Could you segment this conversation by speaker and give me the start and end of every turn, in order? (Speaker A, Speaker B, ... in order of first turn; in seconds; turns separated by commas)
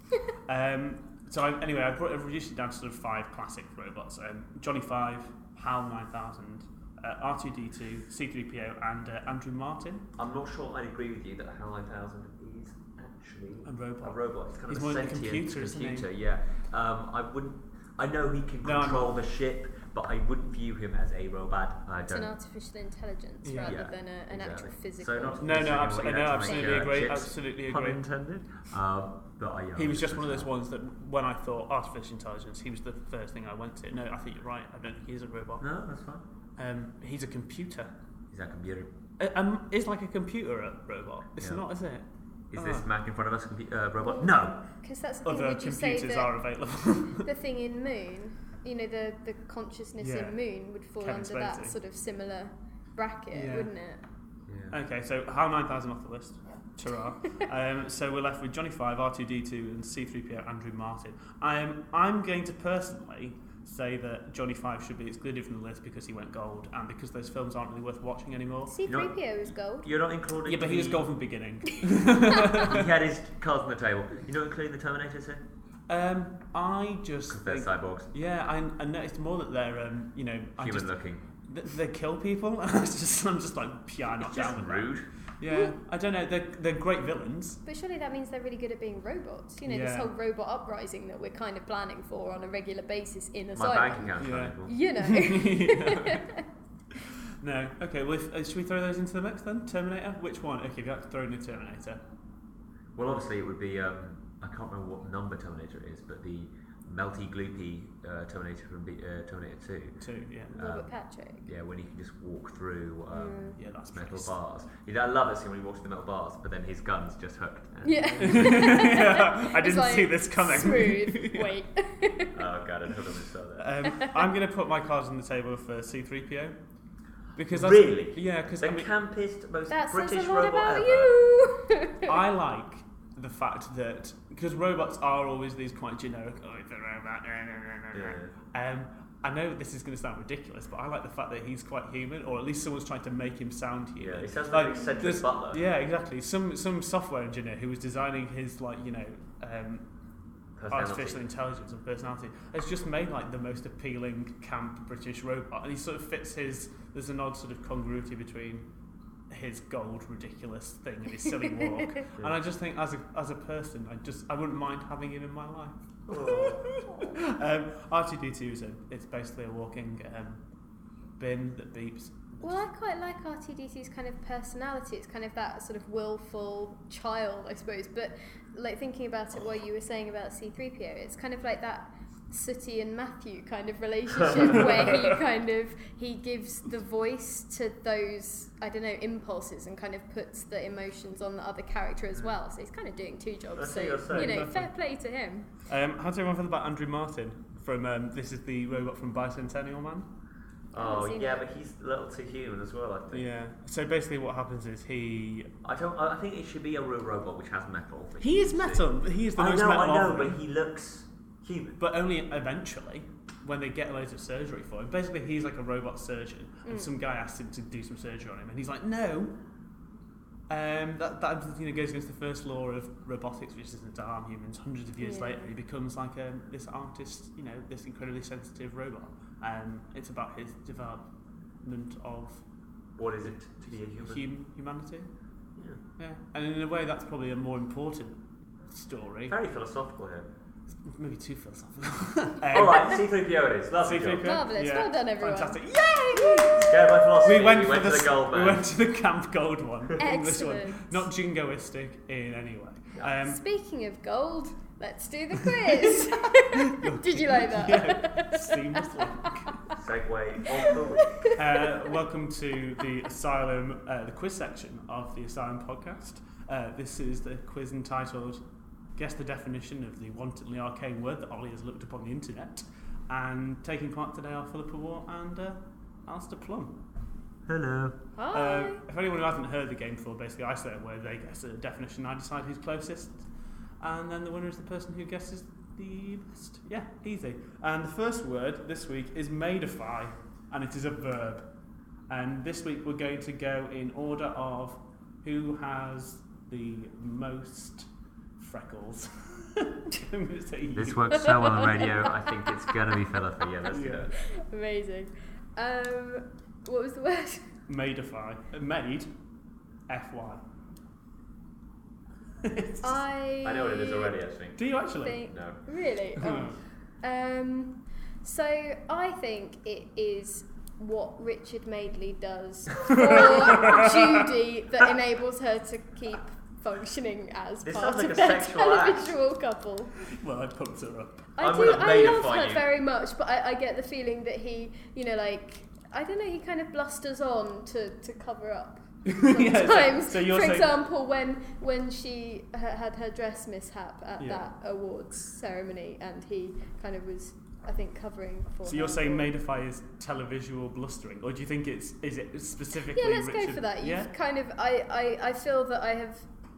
Speaker A: 0.4-10.1, Speaker B: 10.2-22.4, Speaker A: 13.6-16.1, Speaker A: 18.6-19.2, Speaker C: 22.1-26.9, Speaker A: 23.4-23.8, Speaker B: 23.6-30.5, Speaker A: 25.4-28.0, Speaker A: 29.8-35.6, Speaker B: 35.6-36.2, Speaker A: 36.6-37.9, Speaker B: 38.3-38.9, Speaker A: 39.2-42.9, Speaker B: 41.4-41.6, Speaker B: 42.5-44.6, Speaker C: 44.0-44.3, Speaker C: 44.8-46.3, Speaker A: 45.2-47.3, Speaker C: 47.1-54.0, Speaker A: 50.0-50.4, Speaker A: 51.0-51.8, Speaker A: 53.3-53.7, Speaker B: 54.5-54.8, Speaker A: 54.7-68.7, Speaker C: 68.7-69.9, Speaker B: 68.9-69.1, Speaker B: 69.8-71.0, Speaker A: 70.4-72.9, Speaker B: 72.5-75.4, Speaker A: 75.9-80.9, Speaker B: 77.3-78.1, Speaker B: 80.6-81.2, Speaker A: 81.5-87.6, Speaker B: 84.2-85.1, Speaker C: 87.6-96.5, Speaker A: 89.7-90.1, Speaker B: 93.5-94.8, Speaker A: 94.2-96.2, Speaker A: 97.4-102.0, Speaker B: 103.0-110.0, Speaker A: 110.0-110.6, Speaker C: 110.5-111.5, Speaker B: 110.5-110.9, Speaker B: 111.5-118.6, Speaker C: 113.1-113.6, Speaker A: 113.5-114.3, Speaker C: 117.8-122.4, Speaker A: 118.1-121.5, Speaker B: 122.3-123.8, Speaker A: 123.6-126.5, Speaker A: 127.4-128.9, Speaker B: 127.5-131.1, Speaker C: 129.7-132.1, Speaker A: 132.0-149.8, Speaker B: 137.9-138.3, Speaker B: 144.0-145.6, Speaker B: 150.6-151.2, Speaker A: 150.7-158.7, Speaker A: 159.3-170.4, Speaker B: 166.1-166.6, Speaker C: 166.9-167.2, Speaker A: 171.2-172.6, Speaker C: 172.4-195.5, Speaker B: 184.2-184.7, Speaker B: 193.6-194.5, Speaker A: 194.1-194.7, Speaker A: 195.7-200.1, Speaker B: 200.7-203.2, Speaker C: 200.8-201.3, Speaker A: 203.1-205.5, Speaker B: 205.6-211.8, Speaker A: 208.2-210.4, Speaker A: 211.8-219.3, Speaker C: 216.6-216.9, Speaker A: 220.5-231.1, Speaker C: 225.0-225.5, Speaker A: 231.6-232.4, Speaker B: 233.0-234.2, Speaker A: 234.0-235.1, Speaker B: 235.6-235.8, Speaker A: 236.0-239.4, Speaker B: 239.3-240.3, Speaker A: 240.8-243.0, Speaker B: 242.5-244.3, Speaker A: 243.8-253.4, Speaker C: 244.2-246.7, Speaker B: 246.6-248.7, Speaker C: 250.0-251.1, Speaker C: 253.1-259.8, Speaker A: 256.7-259.6, Speaker B: 259.8-261.3, Speaker C: 260.6-261.7, Speaker A: 261.3-268.4, Speaker A: 269.0-276.8, Speaker B: 277.5-278.0, Speaker C: 278.2-278.8, Speaker A: 278.3-283.2, Speaker A: 283.8-291.5, Speaker A: 292.1-301.8, Speaker B: 300.8-304.1, Speaker C: 301.1-302.9, Speaker A: 303.7-304.1, Speaker C: 304.2-307.5, Speaker A: 307.7-309.1, Speaker A: 309.9-310.4, Speaker A: 312.4-313.0, Speaker C: 312.8-314.1, Speaker B: 313.4-314.6, Speaker A: 314.6-315.3, Speaker C: 314.8-329.9, Speaker B: 315.3-315.6, Speaker A: 316.1-316.6, Speaker A: 322.9-324.3, Speaker B: 327.6-329.1, Speaker A: 330.0-331.3, Speaker C: 331.4-349.3, Speaker B: 331.4-332.6, Speaker A: 339.1-340.8, Speaker A: 344.2-344.5, Speaker A: 348.6-354.1, Speaker C: 352.9-356.3